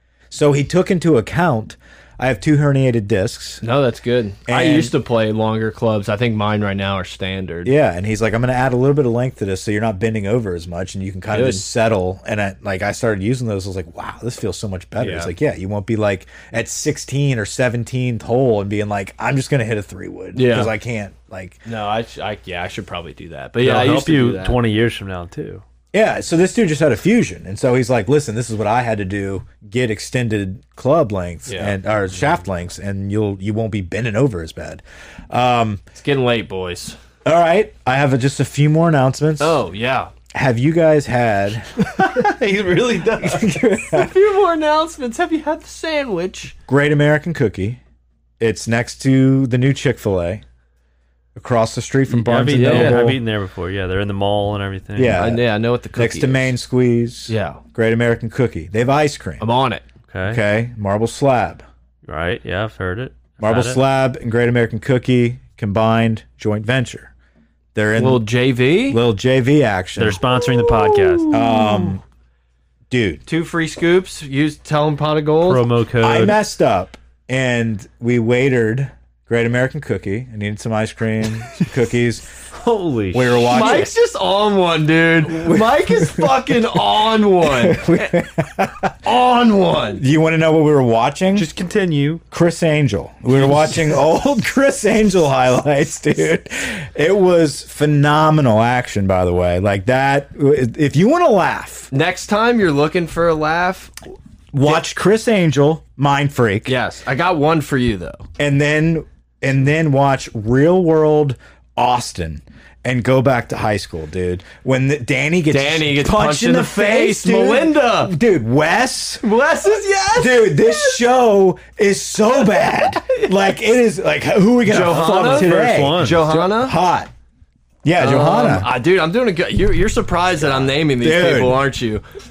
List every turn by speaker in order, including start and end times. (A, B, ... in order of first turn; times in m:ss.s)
0:00.3-0:03.6 A
0:03.6-0:07.7 B
0:04.5-0:04.9 A
0:07.6-0:21.6 A
0:11.3-0:11.6 B
0:15.0-0:15.3 B
0:20.4-0:20.7 B
0:21.6-0:24.6 B
0:23.6-0:25.6 C
0:25.9-0:35.8 A
0:31.5-0:31.8 B
0:36.0-0:37.0 B
0:37.2-0:39.6 A
0:39.4-0:40.1 B
0:40.3-0:42.3 A
0:41.8-0:46.6 B
0:43.1-0:44.1 A
0:46.7-0:47.8 A
0:48.4-0:50.4 A
0:51.4-0:53.2 A
0:52.1-0:55.2 C
0:52.6-0:53.1 B
0:55.0-0:59.4 A
0:55.1-0:56.6 B
0:57.3-0:57.6 B
0:59.4-0:59.8 B
1:00.1-1:00.4 C
1:00.3-1:01.6 A
1:02.1-1:03.8 C
1:03.4-1:07.1 A
1:07.8-1:08.2 A
1:08.0-1:09.0 B
1:08.9-1:10.2 A
1:10.0-1:11.3 C
1:10.4-1:12.0 B
1:11.3-1:12.0 A
1:12.9-1:13.2 A
1:13.3-1:15.7 B
1:15.4-1:16.4 C
1:16.0-1:22.3 A
1:22.6-1:23.8 C
1:23.1-1:23.9 A
1:23.5-1:27.9 B
1:25.3-1:26.4 A
1:27.4-1:29.0 A
1:29.0-1:30.0 B
1:30.0-1:31.5 A
1:31.3-1:32.2 C
1:32.3-1:41.9 A
1:41.9-1:43.9 B
1:44.5-1:46.7 A
1:46.7-1:48.3 B
1:48.4-1:59.2 A
1:55.5-1:58.2 B
1:59.2-2:01.0 B
2:00.2-2:07.1 A
2:02.4-2:03.3 B
2:04.7-2:06.8 B
2:04.8-2:06.4 C
2:07.8-2:08.7 A
2:08.0-2:12.0 B
2:10.4-2:11.6 A